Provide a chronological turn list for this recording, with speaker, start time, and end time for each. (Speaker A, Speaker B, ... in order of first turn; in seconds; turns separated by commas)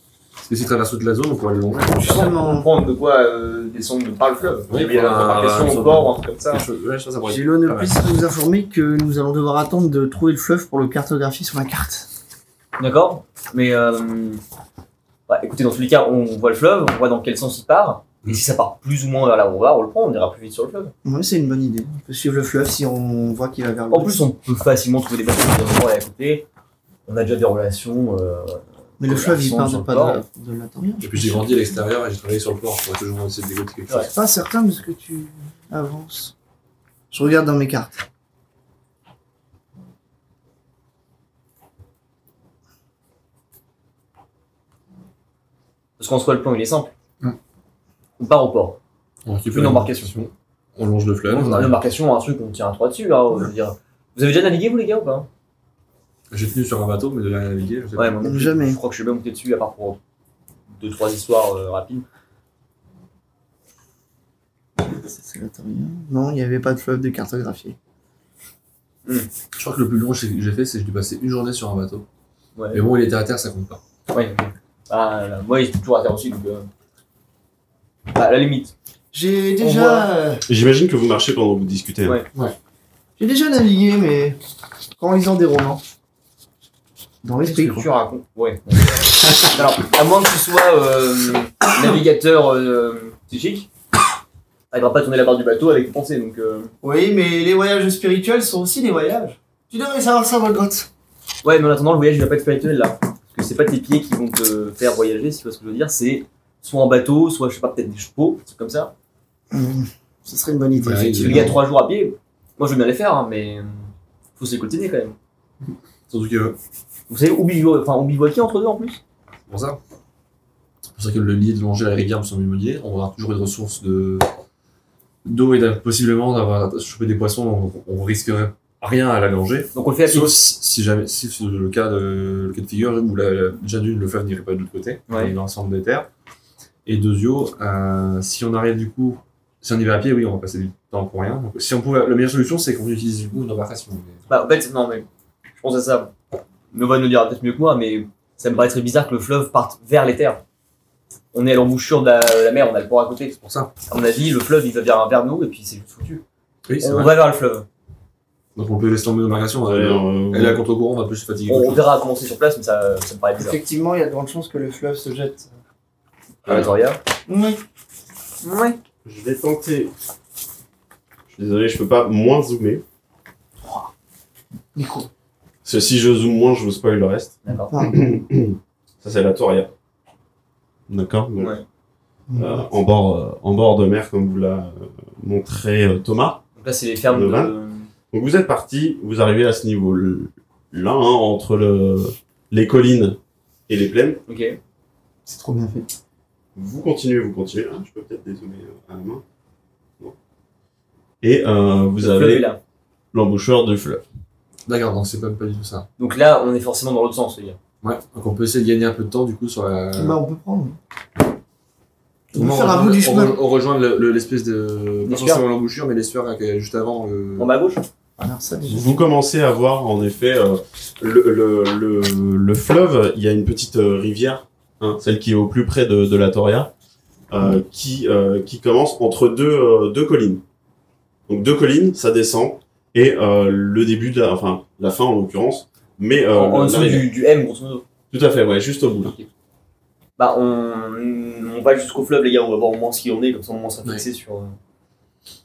Speaker A: 0.4-2.1, Speaker B: 1.9-2.7, Speaker C: 2.0-6.6, Speaker A: 4.4-7.9, Speaker D: 5.2-5.4, Speaker B: 7.2-12.1, Speaker C: 12.8-14.4, Speaker C: 15.3-20.9, Speaker B: 21.0-24.2, Speaker C: 23.9-26.4, Speaker C: 27.1-30.2, Speaker B: 29.0-31.7, Speaker A: 31.0-34.1, Speaker B: 34.1-36.3, Speaker B: 37.1-37.9, Speaker C: 46.0-46.9, Speaker C: 48.2-48.8, Speaker A: 49.2-51.8, Speaker C: 49.5-50.1, Speaker C: 51.3-55.3, Speaker A: 56.3-58.3, Speaker C: 58.0-60.0, Speaker B: 58.2-58.8, Speaker C: 60.8-62.0, Speaker B: 64.8-67.8, Speaker A: 69.5-72.0, Speaker C: 72.5-72.8, Speaker A: 72.7-73.8, Speaker C: 74.1-76.7, Speaker C: 78.1-78.7, Speaker B: 79.1-80.4, Speaker C: 79.6-80.1, Speaker D: 80.5-82.2, Speaker B: 83.2-84.4, Speaker B: 85.0-85.8, Speaker B: 87.2-87.9, Speaker C: 87.4-93.7, Speaker C: 94.7-96.7, Speaker B: 96.8-100.9, Speaker C: 101.4-108.9, Speaker B: 109.5-111.6, Speaker A: 110.8-111.6, Speaker C: 111.2-115.1, Speaker A: 116.1-116.6, Speaker C: 117.1-119.0, Speaker A: 119.5-119.8, Speaker A: 121.0-124.2, Speaker A: 125.2-136.1, Speaker C: 129.7-130.3, Speaker A: 136.8-144.2, Speaker C: 144.3-145.1, Speaker C: 145.6-146.1, Speaker C: 146.7-150.4, Speaker C: 151.3-156.2, Speaker A: 153.4-153.7, Speaker A: 156.7-157.2, Speaker C: 156.8-157.7, Speaker A: 158.6-161.8, Speaker D: 159.6-160.6, Speaker C: 161.5-163.6, Speaker B: 163.4-165.5, Speaker C: 166.4-167.0, Speaker A: 166.4-166.7, Speaker B: 167.3-167.6, Speaker C: 168.4-168.8, Speaker D: 169.0-169.9, Speaker D: 171.3-172.8, Speaker B: 173.6-173.9, Speaker B: 174.7-175.1, Speaker D: 175.6-179.7, Speaker C: 177.4-177.7, Speaker B: 177.7-178.2, Speaker D: 180.9-181.5, Speaker C: 181.4-181.6, Speaker B: 182.3-182.6, Speaker D: 182.3-186.4, Speaker C: 186.6-187.9, Speaker D: 187.1-187.5, Speaker D: 188.1-194.2, Speaker C: 194.3-194.6, Speaker B: 195.2-195.9, Speaker D: 196.6-199.2, Speaker D: 201.2-202.5, Speaker C: 202.0-202.6, Speaker D: 203.1-204.0, Speaker A: 204.7-205.9, Speaker C: 206.0-207.6, Speaker A: 207.8-210.2, Speaker B: 209.9-210.8, Speaker B: 212.3-213.4, Speaker A: 212.3-217.5, Speaker C: 215.0-215.4, Speaker C: 217.4-217.8, Speaker B: 218.2-219.0, Speaker D: 218.7-226.7, Speaker D: 227.3-230.4, Speaker D: 231.3-237.1, Speaker C: 236.3-237.8, Speaker D: 238.1-239.2, Speaker C: 240.2-244.6